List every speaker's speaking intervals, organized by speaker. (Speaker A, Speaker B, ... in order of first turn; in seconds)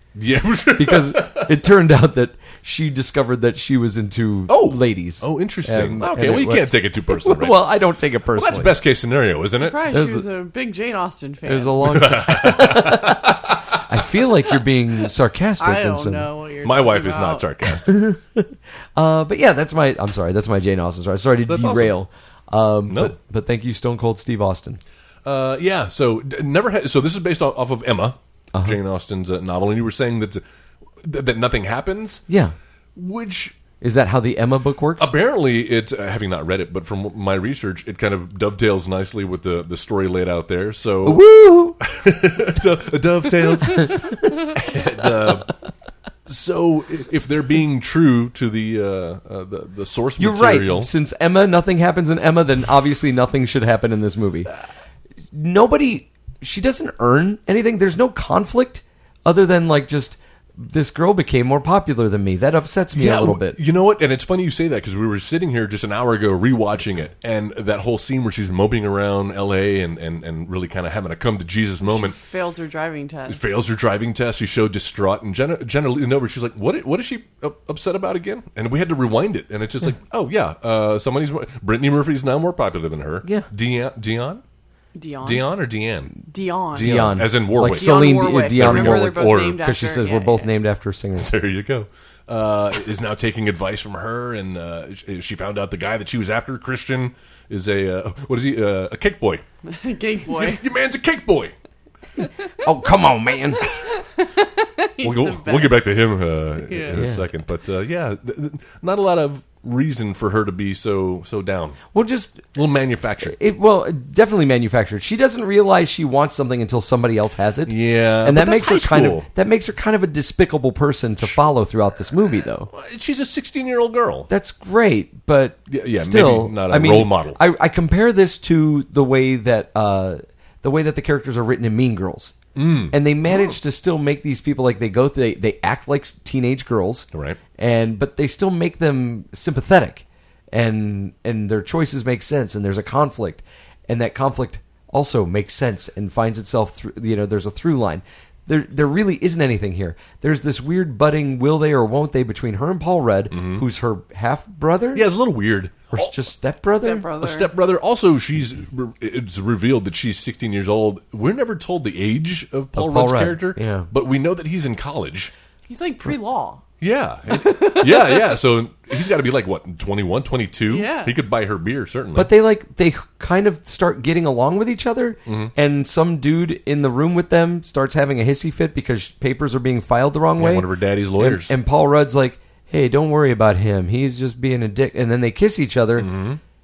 Speaker A: 0.1-1.6, 4.5-7.7, 8.3-9.8, 11.8-13.8, 16.6-18.0, 21.5-21.9, 22.9-23.1, 25.2-30.4, 31.0-32.2, 33.0-33.6, 35.0-41.2, 41.8-45.5, 46.3-50.9, 62.9-72.2, 73.3-84.4, 85.2-86.2, 86.7-89.6, 91.2-99.4, 100.3-101.5, 105.0-111.8, 112.5-113.3, 117.7-119.3, 122.7-124.3, 125.7-127.4, 132.5-133.6, 137.1-137.4, 153.3-153.6, 154.9-156.1, 157.2-165.3, 166.8-172.3, 175.2-175.5, 180.4-181.6, 186.0-186.4
Speaker B: 0.8-8.7, 9.9-10.2, 11.4-16.3, 17.8-24.8, 32.3-32.5, 33.8-35.1, 41.0-41.8, 43.7-44.3, 50.2-54.5, 55.3-63.6, 86.7-91.3, 102.6-103.7, 106.9-107.2, 111.9-112.5, 113.2-122.7, 124.3-132.3, 132.9-155.1, 155.9-157.1, 162.8-163.9, 172.1-186.1
Speaker C: 9.5-12.0, 15.6-17.4, 71.8-73.4, 84.9-85.5, 86.3-90.5, 99.7-100.6, 103.6-105.9, 106.7-107.0, 156.7-157.5, 165.7-166.6, 167.3-168.4, 170.7-171.1